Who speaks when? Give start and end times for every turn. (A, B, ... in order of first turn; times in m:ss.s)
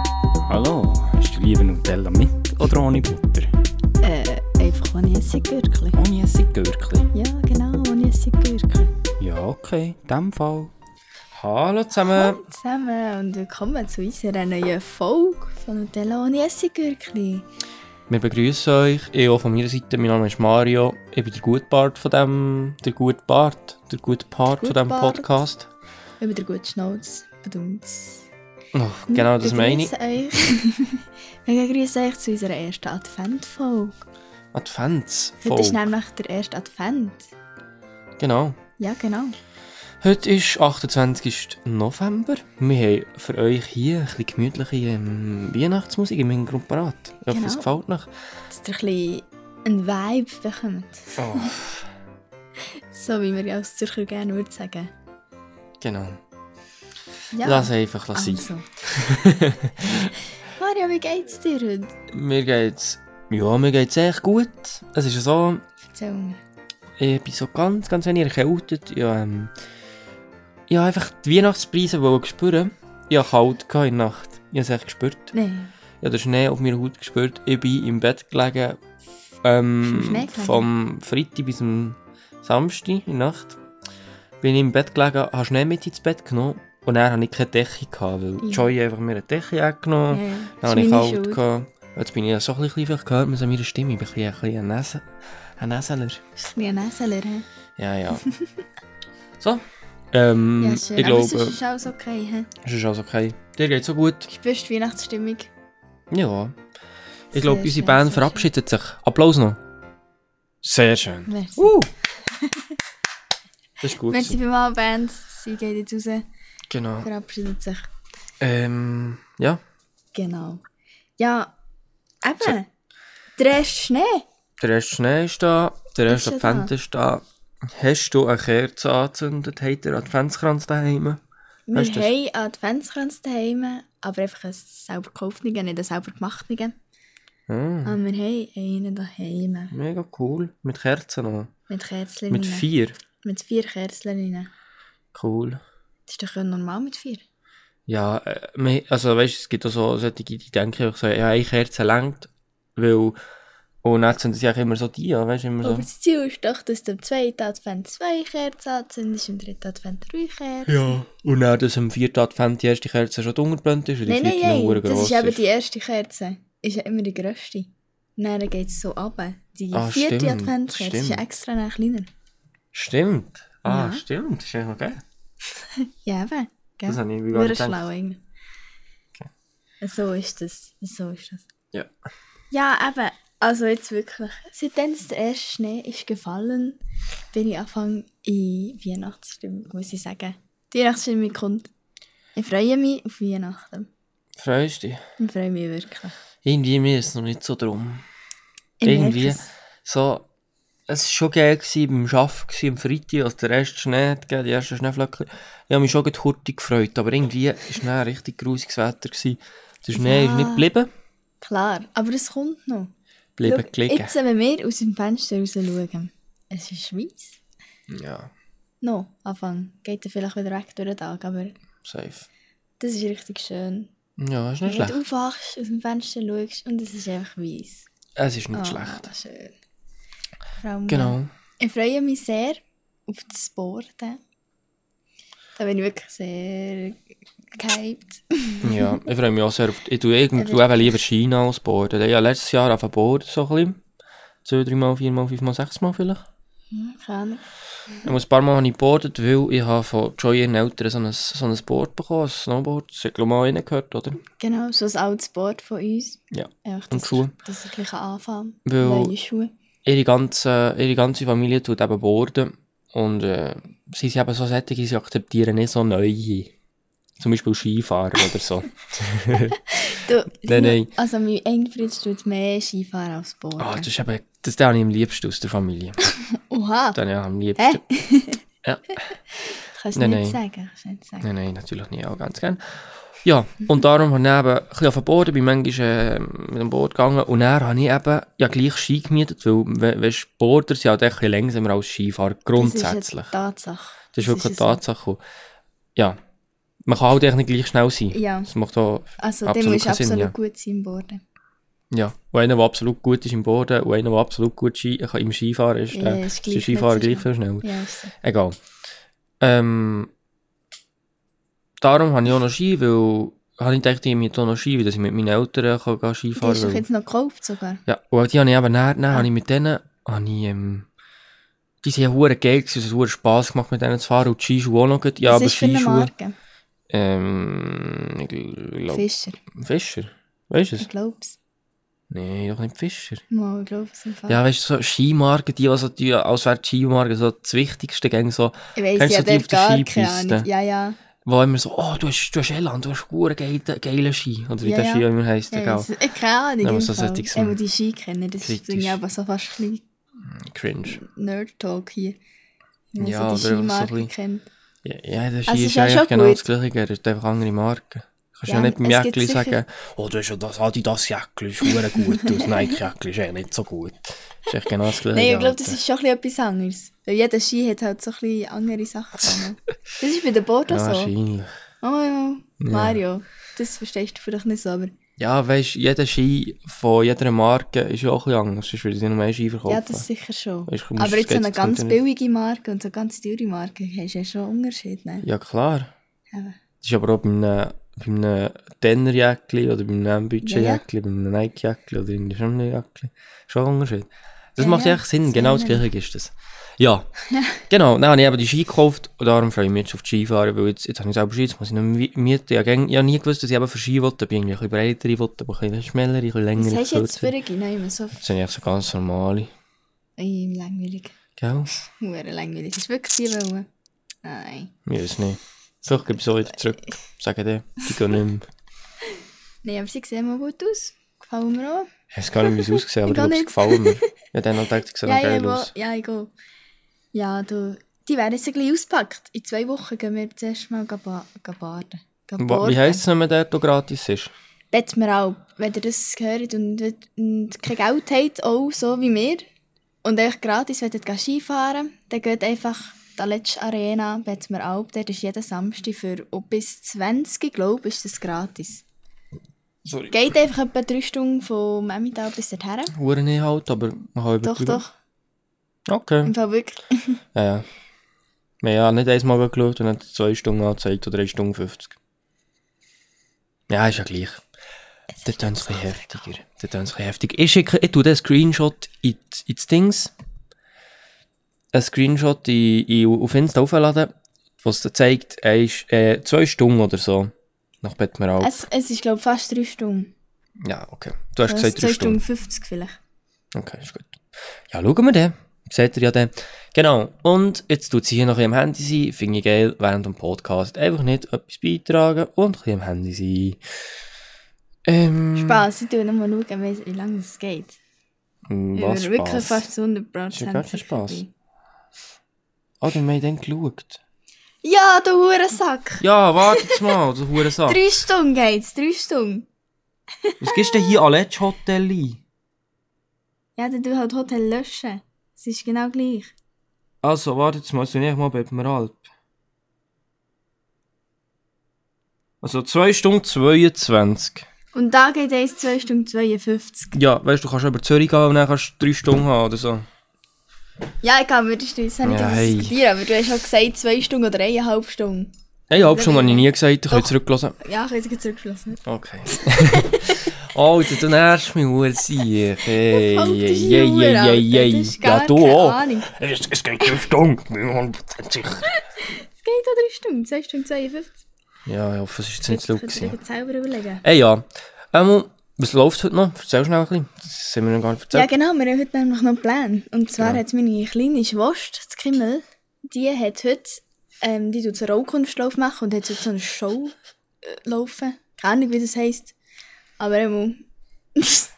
0:00.5-0:03.5 A
0:04.0-0:06.0 B
0:06.0-0:06.9 A
0:06.7-0:07.0 C
0:07.1-0:08.9 B
0:09.2-0:10.7 A
0:11.3-0:12.4 C
0:12.0-0:17.4 B
0:18.1-0:25.7 C
0:24.6-0:25.3 B
0:26.2-0:28.2 B
0:28.7-0:29.9 C
0:29.1-0:34.0 B
0:34.5-0:35.8 C
0:35.4-0:37.3 B
0:38.2-0:38.6 C
0:38.8-0:39.4 B
0:40.0-0:48.1 C
0:47.3-0:47.7 B
0:48.5-0:51.5 B
0:51.2-0:51.9 C
0:52.9-0:54.9 B
0:55.8-0:56.2 C
0:57.3-0:58.6 B
0:57.4-1:00.1 C
1:00.5-1:01.9 B
1:02.1-1:05.6 C
1:05.9-1:06.4 B
1:07.0-1:09.5 C
1:10.7-1:15.3 C
1:15.3-1:15.7 B
1:16.0-1:18.8 C
1:19.4-1:23.6 C
1:19.8-1:20.7 B
1:24.4-1:36.2 C
1:30.1-1:31.4 B
1:36.4-1:37.4 B
1:37.8-1:38.3 C
1:38.2-1:38.5 B
1:39.4-1:41.6 C
1:40.6-1:42.5 B
1:42.6-1:44.3 C
1:44.3-1:45.5 B
1:46.1-1:46.6 C
1:47.3-1:49.6 C
1:47.3-1:48.5 B
1:50.6-1:51.9 C
1:51.3-1:52.7 B
1:53.8-1:54.4 C
1:54.0-1:56.2 B
1:56.7-1:57.1 C
1:57.0-1:57.9 B
1:58.4-1:59.6 C
2:00.1-2:00.6 B
2:01.2-2:01.5 B
2:02.2-2:02.7 B
2:03.4-2:04.2 B
2:04.6-2:11.2 C
2:06.1-2:06.7 B
2:11.7-2:16.8 B
2:11.7-2:12.1 C
2:17.5-2:18.0 C
2:17.8-2:19.7 B
2:19.7-2:21.5 C
2:21.7-2:22.7 B
2:22.3-2:23.0 C
2:23.2-2:24.5 B
2:25.1-2:25.6 C
2:26.1-2:27.2 B
2:27.9-2:33.2 C
2:33.8-2:35.9 C
2:35.6-2:41.0 B
2:40.6-2:45.4 C
2:44.0-2:52.1 B
2:49.7-2:51.2 C
2:52.7-2:55.0 C
2:53.6-2:54.0 B
2:56.0-2:58.2 B
2:56.8-2:57.8 C
2:59.8-3:01.4 B
3:02.5-3:06.8 B
3:07.3-3:11.7 B
3:12.3-3:13.9 B
3:14.4-3:15.0 C
3:15.2-3:16.2 B
3:16.4-3:18.0 C
3:18.8-3:19.5 B
3:18.8-3:20.2 C
3:20.9-3:30.9 C
3:29.9-3:30.7 B
3:31.4-3:32.9 B
3:33.4-3:34.1 C
3:33.4-3:37.4 B
3:37.9-3:38.3 C
3:38.8-3:41.5 B
3:41.8-3:42.3 C
3:42.8-3:43.9 B
3:44.2-3:45.0 C
3:44.6-3:47.9 B
3:48.2-3:49.1 C
3:48.5-3:49.5 B
3:50.6-3:54.2 B
3:50.9-3:51.3 C
3:55.6-3:57.0 B
3:57.5-3:59.0 B
3:58.6-4:03.8 C
4:00.4-4:01.0 B
4:04.4-4:06.2 C
4:06.7-4:08.0 B
4:08.0-4:14.2 C
4:14.4-4:19.5 B
4:16.3-4:17.3 C
4:18.6-4:19.1 C
4:19.8-4:26.5 C
4:27.2-4:29.6 C
4:29.5-4:33.9 B
4:30.4-4:30.9 C
4:33.6-4:36.0 C
4:36.3-4:37.0 B
4:36.9-4:37.8 C
4:37.6-4:38.4 B
4:38.6-4:39.0 C
4:39.3-4:41.3 B
4:39.9-4:40.4 C
4:41.2-4:53.3 C
4:52.5-4:54.8 B
4:54.1-4:55.2 C
4:56.8-5:00.3 C
4:58.1-4:58.5 B
4:59.2-5:01.2 B
5:01.9-5:08.6 C
5:05.9-5:08.1 B
5:09.4-5:10.1 C
5:11.8-5:16.8 C
5:16.4-5:17.8 B
5:17.9-5:20.9 C
5:21.8-5:26.1 C
5:25.2-5:26.4 B
5:26.9-5:30.9 C
5:28.9-5:29.4 B
5:30.8-5:31.4 B
5:32.1-5:33.2 C
5:33.3-5:34.4 B
5:34.3-5:40.5 C
5:38.8-5:41.0 B
5:41.2-5:45.9 C
5:44.6-5:49.8 B
5:46.6-5:47.6 C
5:48.4-5:49.0 C
5:50.2-5:51.0 C
5:50.8-5:52.2 B
5:52.9-5:54.4 B
5:53.0-5:54.1 C
5:54.8-6:05.8 C
5:55.5-5:56.4 B
5:58.5-5:59.6 B
6:05.1-6:11.1 B
6:10.7-6:11.5 C
6:11.8-6:14.9 B
6:12.6-6:13.0 C
6:15.2-6:20.0 C
6:19.7-6:25.3 B
6:20.7-6:22.0 C
6:25.2-6:25.9 C
6:26.3-6:26.6 B
6:26.8-6:37.1 C
6:30.4-6:30.8 B
6:34.6-6:35.8 B
6:37.3-6:37.6 B
6:37.7-6:47.3 C
6:46.6-6:48.2 B
6:48.2-6:49.5 C
6:50.2-6:51.1 B
6:51.4-6:51.7 C
6:51.8-6:53.7 B
6:54.2-6:54.7 B
6:54.8-6:58.5 C
6:59.6-7:04.2 B
7:02.1-7:05.7 C
7:05.0-7:06.3 B
7:07.1-7:13.0 B
7:12.4-7:14.3 C
7:14.7-7:19.4 B
7:20.0-7:28.8 B
7:29.8-7:30.1 C
7:30.1-7:32.9 B
7:32.9-7:34.8 C
7:34.4-7:34.9 B
7:35.9-7:36.3 C
7:36.2-7:37.2 B
7:37.3-7:37.7 C
7:38.6-7:41.9 C
7:43.7-7:44.4 C
7:45.2-7:46.1 B
7:45.2-7:50.1 C
7:51.7-7:58.6 C
7:58.4-8:00.1 B
8:00.6-8:02.2 C
8:01.4-8:03.0 B
8:03.5-8:13.6 C
8:14.8-8:15.6 C
8:15.3-8:17.8 B
8:18.5-8:19.6 C
8:18.7-8:21.3 B
8:20.3-8:21.2 C
8:22.8-8:24.0 C
8:24.6-8:27.0 B
8:26.0-8:27.8 C
8:27.6-8:29.5 B
8:30.2-8:31.0 B
8:30.4-8:32.2 C
8:33.6-8:36.3 B
8:37.0-8:39.0 C
8:42.4-8:44.4 C
8:44.7-8:47.0 B
8:46.9-8:49.9 C
8:51.0-9:00.3 B
8:52.0-8:52.7 C
8:55.7-8:57.6 C
8:58.8-9:08.8 C
9:02.9-9:06.1 B
9:08.7-9:11.2 B
9:11.6-9:13.2 C
9:12.5-9:14.0 B
9:14.0-9:18.3 C
9:18.1-9:29.3 B
9:30.0-9:30.6 B
9:31.2-9:31.5 B